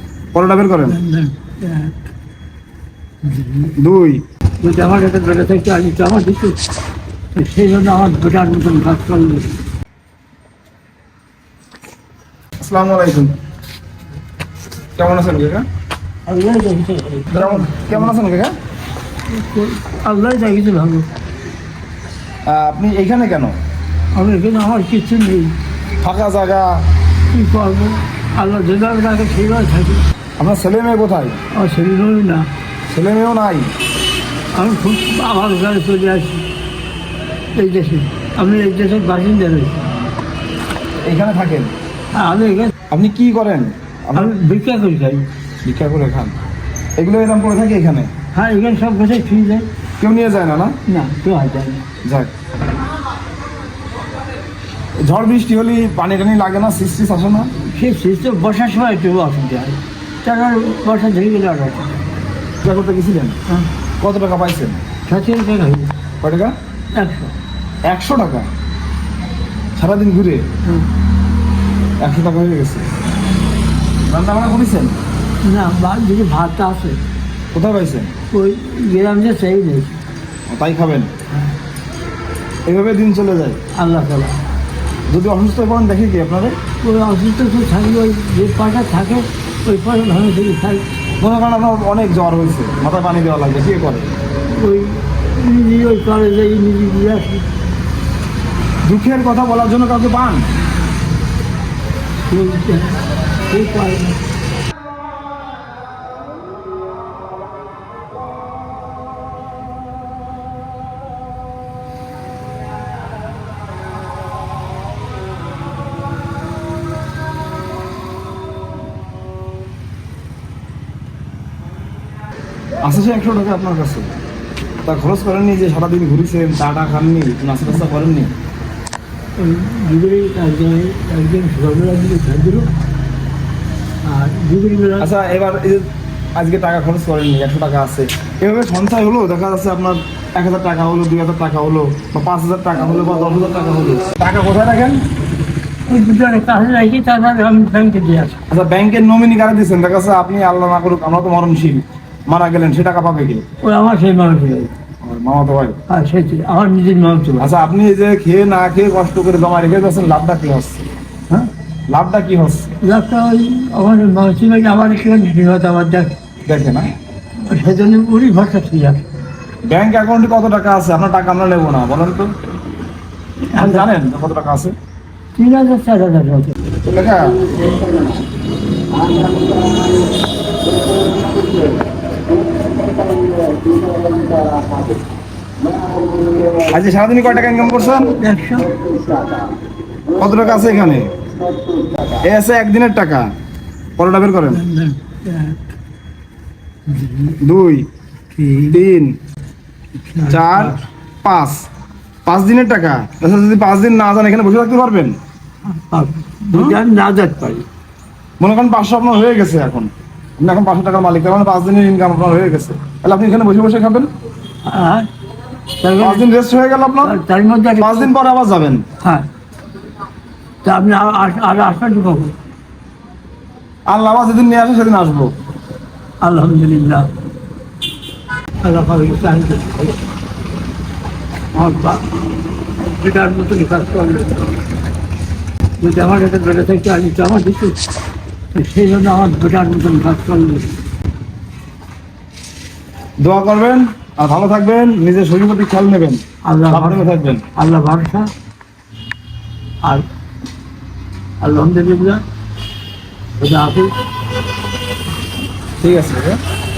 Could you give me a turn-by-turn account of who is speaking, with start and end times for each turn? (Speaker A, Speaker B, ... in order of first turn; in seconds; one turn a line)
Speaker A: 0.3-1.0
Speaker B: 0.9-1.9
Speaker B: 3.2-3.7
Speaker A: 3.8-4.2
Speaker B: 4.6-6.6
Speaker B: 7.3-9.5
Speaker A: 12.6-13.3
Speaker A: 15.0-15.7
Speaker B: 16.3-18.1
Speaker A: 17.3-18.5
Speaker B: 19.3-21.1
Speaker A: 22.5-23.6
Speaker B: 24.1-25.6
Speaker A: 26.0-26.8
Speaker B: 27.3-30.0
Speaker A: 30.4-31.4
Speaker B: 31.6-32.5
Speaker A: 32.9-33.7
Speaker B: 34.5-36.5
Speaker B: 37.5-40.1
Speaker A: 41.0-41.7
Speaker B: 42.1-42.7
Speaker A: 42.9-44.3
Speaker B: 44.1-45.3
Speaker A: 45.6-46.3
Speaker A: 47.0-48.1
Speaker B: 48.3-49.7
Speaker A: 50.0-50.7
Speaker B: 50.9-51.9
Speaker A: 52.0-52.3
Speaker A: 55.0-57.5
Speaker B: 57.7-62.0
Speaker A: 62.6-63.4
Speaker A: 64.0-64.8
Speaker B: 65.1-65.9
Speaker A: 66.2-66.5
Speaker B: 66.9-67.3
Speaker A: 67.9-68.5
Speaker A: 69.8-70.5
Speaker A: 72.0-72.8
Speaker A: 74.1-75.0
Speaker B: 75.4-77.0
Speaker A: 77.5-78.1
Speaker B: 78.3-80.0
Speaker A: 80.5-81.1
Speaker A: 82.7-83.6
Speaker B: 83.8-84.4
Speaker A: 85.1-86.6
Speaker B: 86.8-90.8
Speaker A: 91.2-94.1
Speaker B: 94.5-97.5
Speaker A: 98.8-100.5
Speaker B: 102.3-104.2
Speaker A: 122.8-124.1
Speaker A: 124.8-128.3
Speaker B: 129.4-132.7
Speaker B: 134.0-135.1
Speaker A: 135.0-135.8
Speaker A: 136.4-145.0
Speaker B: 145.9-148.4
Speaker A: 148.5-153.4
Speaker B: 153.6-154.7
Speaker A: 155.0-155.8
Speaker B: 155.9-157.5
Speaker A: 157.4-160.8
Speaker A: 161.9-162.7
Speaker B: 162.8-166.1
Speaker A: 166.5-166.9
Speaker B: 167.4-169.0
Speaker A: 169.7-172.3
Speaker B: 173.5-173.9
Speaker A: 173.6-174.7
Speaker B: 175.4-176.6
Speaker A: 176.8-177.4
Speaker A: 186.7-188.2
Speaker B: 188.2-188.8
Speaker A: 190.2-191.1
Speaker A: 192.2-193.2
Speaker A: 194.0-194.6
Speaker B: 194.5-195.6
Speaker B: 196.9-197.4
Speaker A: 197.4-197.9
Speaker B: 198.3-198.8
Speaker A: 198.7-199.1
Speaker B: 200.1-200.8
Speaker A: 200.3-201.6
Speaker A: 202.3-205.2
Speaker B: 205.7-207.7
Speaker A: 208.4-214.1
Speaker B: 214.6-215.1
Speaker B: 215.8-216.3
Speaker A: 216.0-217.2
Speaker B: 217.0-218.1
Speaker A: 217.8-218.8
Speaker B: 220.6-222.3
Speaker A: 223.9-225.3
Speaker B: 226.2-227.1
Speaker B: 228.6-230.0
Speaker B: 231.5-232.0
Speaker B: 232.8-234.6
Speaker B: 235.8-237.8
Speaker B: 238.5-240.7
Speaker A: 243.2-247.4
Speaker B: 246.5-248.3
Speaker B: 251.4-252.2
Speaker B: 253.4-253.9
Speaker A: 255.8-256.4